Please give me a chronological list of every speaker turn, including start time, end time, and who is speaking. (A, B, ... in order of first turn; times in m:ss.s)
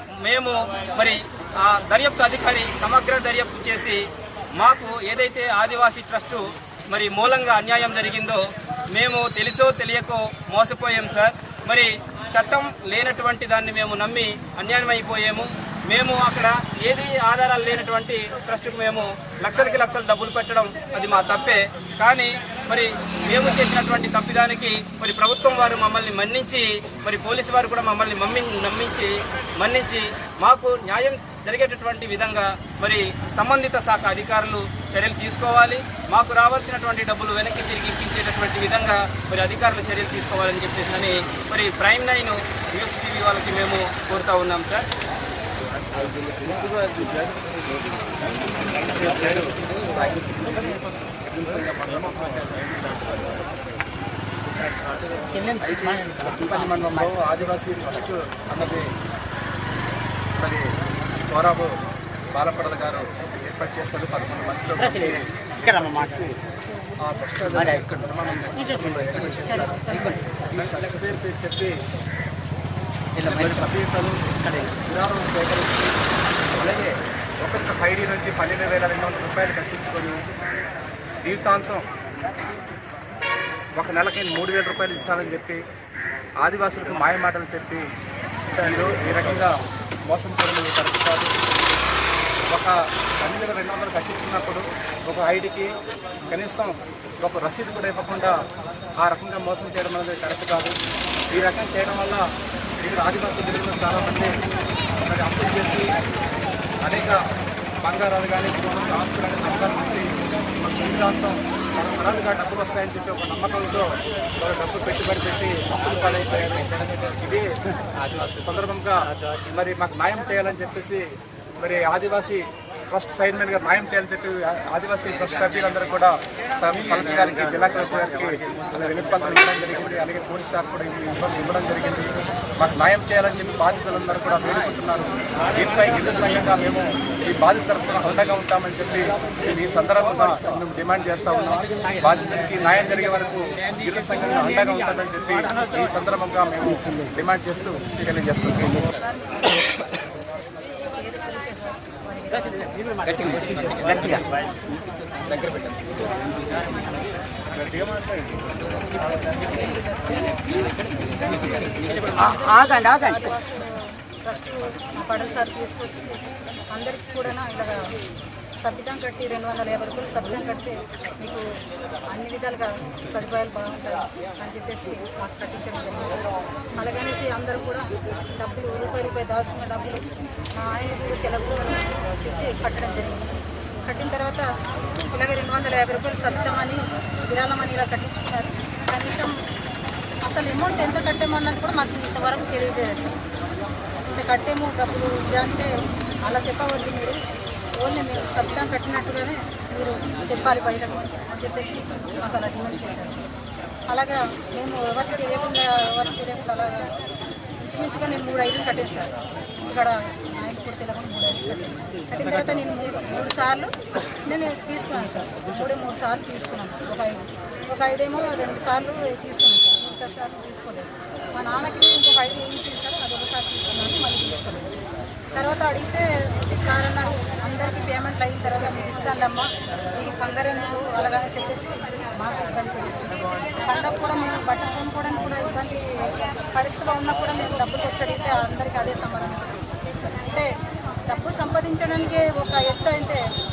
0:00.2-0:04.0 A
0:04.6-0:44.9 A
0:46.0-0:47.3 B
0:48.6-0:53.4 B
0:55.2-0:56.9 C
0:55.6-0:58.9 B
1:00.4-1:01.8 B
1:02.3-1:05.3 B
1:04.8-1:06.4 C
1:07.0-1:11.8 B
1:07.6-1:08.0 C
1:08.6-1:10.3 C
1:09.4-1:10.5 D
1:13.2-1:13.7 C
1:13.2-1:15.9 B
1:14.4-1:14.8 C
1:16.5-1:20.2 B
1:21.2-1:21.8 B
1:23.8-1:25.6 B
1:26.4-1:27.8 B
1:28.5-1:29.5 B
1:30.1-1:31.3 B
1:32.5-1:35.7 B
1:36.3-1:38.4 B
1:39.0-1:40.8 B
1:41.3-1:42.2 B
1:42.8-1:44.3 B
1:45.0-1:45.9 B
1:46.8-1:47.2 B
1:47.8-1:57.5 B
1:58.1-2:01.0 B
2:01.6-2:28.9 B
2:28.9-2:29.6 D
2:30.8-2:32.7 D
2:33.0-2:34.5 C
2:35.4-2:35.7 D
2:36.5-2:37.2 D
2:38.9-2:47.8 D
2:42.0-2:43.3 C
2:48.6-2:51.4 D
2:52.1-2:56.2 D
2:56.8-3:04.5 D
3:05.1-3:09.3 D
3:10.2-3:13.2 D
3:14.0-3:15.7 D
3:16.2-3:17.2 D
3:17.8-3:23.2 D
3:23.9-3:26.9 D
3:27.6-3:44.8 D
3:45.3-3:59.6 D
4:00.2-4:00.5 D
4:01.1-4:03.2 D